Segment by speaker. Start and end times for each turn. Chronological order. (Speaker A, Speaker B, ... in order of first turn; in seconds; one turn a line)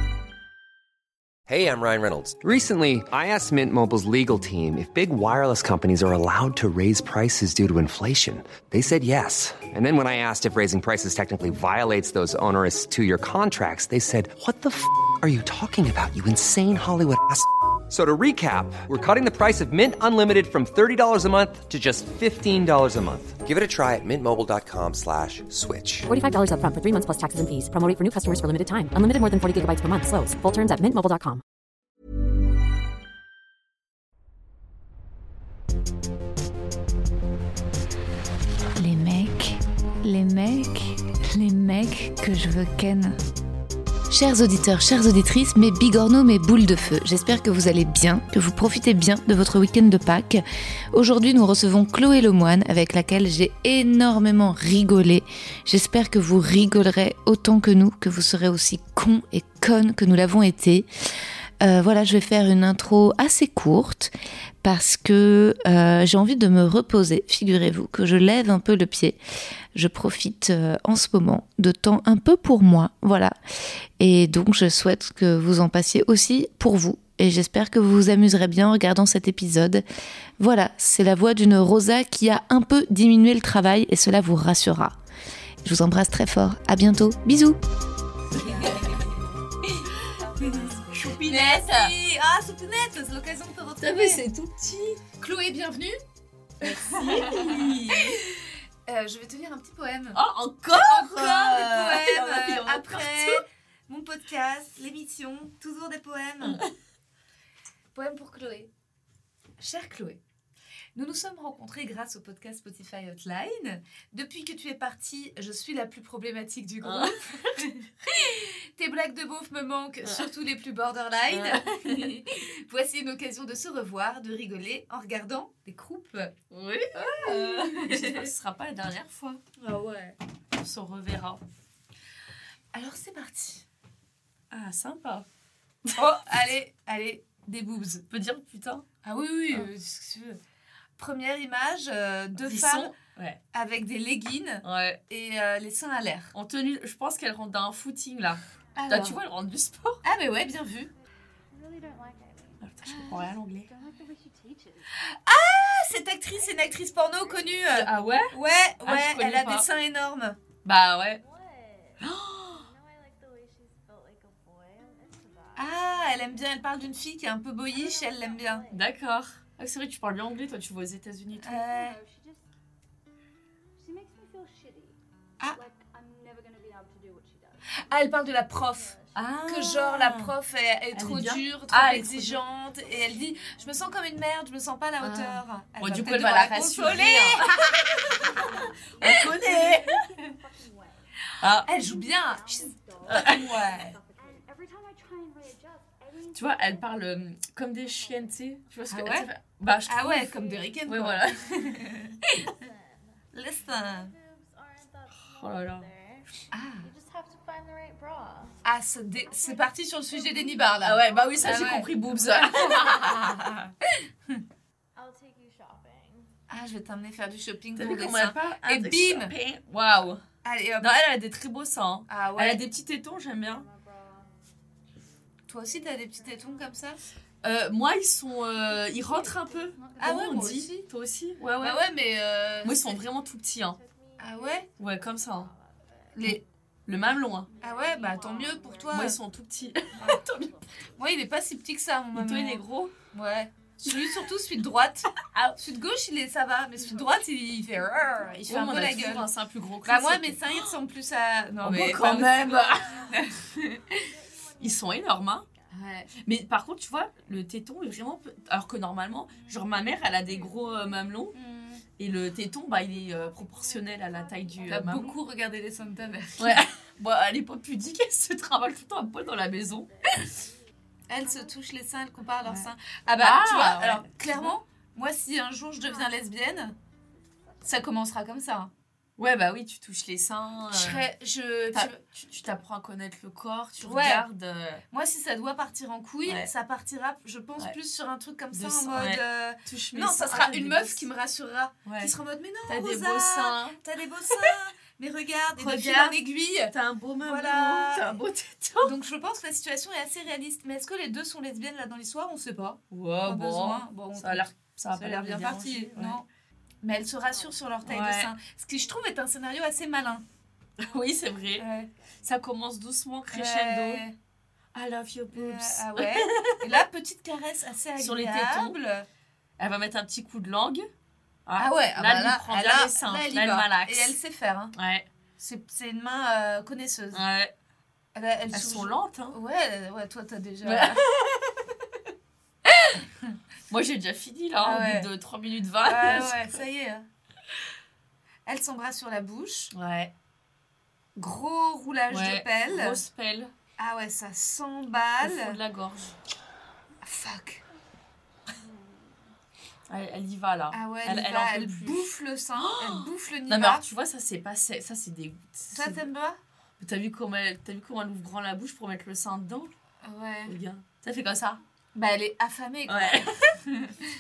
Speaker A: 1.5-26.1
Speaker B: 26.1-31.4
Speaker C: 38.8-43.2
Speaker C: 44.1-60.9
Speaker C: 61.6-64.1
Speaker C: 64.6-69.2
Speaker C: 69.7-73.4
Speaker C: 74.0-79.8
Speaker C: 80.4-85.0
Speaker C: 85.6-87.6
Speaker D: 88.3-89.0
Speaker E: 88.3-94.2
Speaker D: 90.4-91.9
Speaker D: 93.8-95.0
Speaker E: 95.2-96.0
Speaker D: 96.6-98.2
Speaker E: 96.6-100.2
Speaker D: 100.1-103.4
Speaker E: 100.7-106.6
Speaker D: 106.4-106.7
Speaker E: 107.9-108.7
Speaker E: 109.6-110.2
Speaker E: 111.0-126.3
Speaker D: 116.8-117.7
Speaker D: 120.0-120.3
Speaker D: 121.3-122.1
Speaker D: 126.5-129.4
Speaker E: 127.0-128.3
Speaker E: 129.6-130.2
Speaker D: 130.6-131.4
Speaker E: 132.7-133.7
Speaker D: 134.5-135.3
Speaker E: 135.9-138.1
Speaker D: 138.1-138.8
Speaker E: 139.0-140.4
Speaker E: 141.0-143.0
Speaker D: 142.4-143.4
Speaker E: 143.5-146.3
Speaker D: 144.6-145.0
Speaker D: 146.3-150.0
Speaker E: 148.8-149.2
Speaker E: 150.0-150.9
Speaker F: 151.5-155.1
Speaker D: 152.6-153.7
Speaker E: 152.9-153.2
Speaker E: 155.1-160.4
Speaker F: 156.3-158.8
Speaker D: 157.7-159.7
Speaker D: 160.7-161.2
Speaker F: 161.1-166.9
Speaker D: 162.0-162.6
Speaker E: 165.6-168.7
Speaker F: 167.7-169.1
Speaker D: 168.7-171.6
Speaker E: 171.4-172.0
Speaker F: 171.5-172.4
Speaker F: 173.8-175.0
Speaker F: 175.5-179.4
Speaker E: 177.8-190.3
Speaker D: 179.2-180.3
Speaker D: 180.9-182.4
Speaker F: 182.6-184.3
Speaker D: 185.0-187.5
Speaker F: 186.2-197.1
Speaker D: 189.0-190.1
Speaker D: 191.4-191.7
Speaker E: 191.6-194.0
Speaker D: 193.1-193.6
Speaker D: 196.3-200.3
Speaker F: 197.8-198.6
Speaker E: 198.9-199.3
Speaker E: 199.9-202.6
Speaker F: 200.1-213.7
Speaker D: 200.9-201.4
Speaker E: 203.3-204.1
Speaker D: 205.2-205.9
Speaker E: 206.5-206.9
Speaker E: 208.7-213.7
Speaker D: 210.8-213.2
Speaker F: 214.9-216.4
Speaker E: 216.5-219.3
Speaker D: 217.8-220.2
Speaker E: 220.4-221.0
Speaker D: 220.8-223.7
Speaker E: 222.1-222.6
Speaker F: 223.3-224.3
Speaker E: 225.5-227.0
Speaker F: 225.6-226.9
Speaker D: 227.4-231.8
Speaker F: 228.5-241.3
Speaker E: 230.0-230.9
Speaker E: 231.6-233.0
Speaker D: 232.6-233.8
Speaker E: 234.2-234.7
Speaker D: 234.8-235.5
Speaker E: 236.2-236.4
Speaker D: 236.2-237.5
Speaker E: 237.6-239.2
Speaker D: 238.9-240.6
Speaker E: 241.0-249.3
Speaker D: 242.1-242.9
Speaker D: 243.9-244.2
Speaker D: 245.3-245.6
Speaker F: 246.8-249.2
Speaker D: 248.5-250.7
Speaker E: 249.8-254.1
Speaker D: 251.6-253.1
Speaker F: 251.9-256.1
Speaker D: 254.6-255.5
Speaker E: 255.7-256.1
Speaker D: 256.2-261.4
Speaker F: 259.3-261.8
Speaker E: 261.3-261.8
Speaker D: 262.0-265.2
Speaker F: 262.7-265.2
Speaker E: 264.7-266.6
Speaker F: 265.8-266.9
Speaker D: 266.4-269.9
Speaker F: 268.5-271.6
Speaker E: 271.1-276.8
Speaker F: 272.1-272.6
Speaker D: 272.4-274.6
Speaker F: 275.8-276.3
Speaker F: 277.1-277.9
Speaker E: 277.6-278.7
Speaker D: 279.2-281.1
Speaker E: 280.7-282.0
Speaker D: 281.7-284.8
Speaker E: 283.8-284.3
Speaker E: 284.9-298.2
Speaker D: 286.2-286.5
Speaker D: 288.5-291.1
Speaker D: 291.9-292.1
Speaker D: 292.7-294.6
Speaker D: 295.6-298.9
Speaker E: 298.8-306.3
Speaker D: 302.9-306.2
Speaker E: 306.8-310.2
Speaker D: 307.9-308.3
Speaker D: 310.8-311.7
Speaker F: 310.9-312.3
Speaker E: 311.6-311.9
Speaker D: 312.2-314.0
Speaker E: 313.3-314.2
Speaker D: 314.7-316.8
Speaker E: 315.3-319.1
Speaker D: 318.0-318.8
Speaker D: 319.6-320.9
Speaker D: 321.5-324.2
Speaker E: 321.6-324.8
Speaker D: 324.8-325.1
Speaker E: 325.4-327.2
Speaker D: 327.1-327.5
Speaker E: 328.1-331.1
Speaker D: 328.5-329.4
Speaker D: 330.6-331.5
Speaker E: 332.7-333.3
Speaker D: 333.7-336.6
Speaker E: 334.6-335.1
Speaker E: 335.8-337.1
Speaker E: 338.5-339.7
Speaker D: 339.7-340.1
Speaker E: 341.2-343.0
Speaker D: 342.1-343.5
Speaker E: 343.8-345.6
Speaker D: 345.2-346.2
Speaker E: 347.0-347.6
Speaker D: 349.9-352.1
Speaker E: 350.7-353.8
Speaker D: 352.6-356.0
Speaker E: 355.7-356.4
Speaker D: 356.8-359.7
Speaker E: 360.0-360.6
Speaker D: 360.5-361.6
Speaker E: 361.9-364.0
Speaker D: 362.9-363.5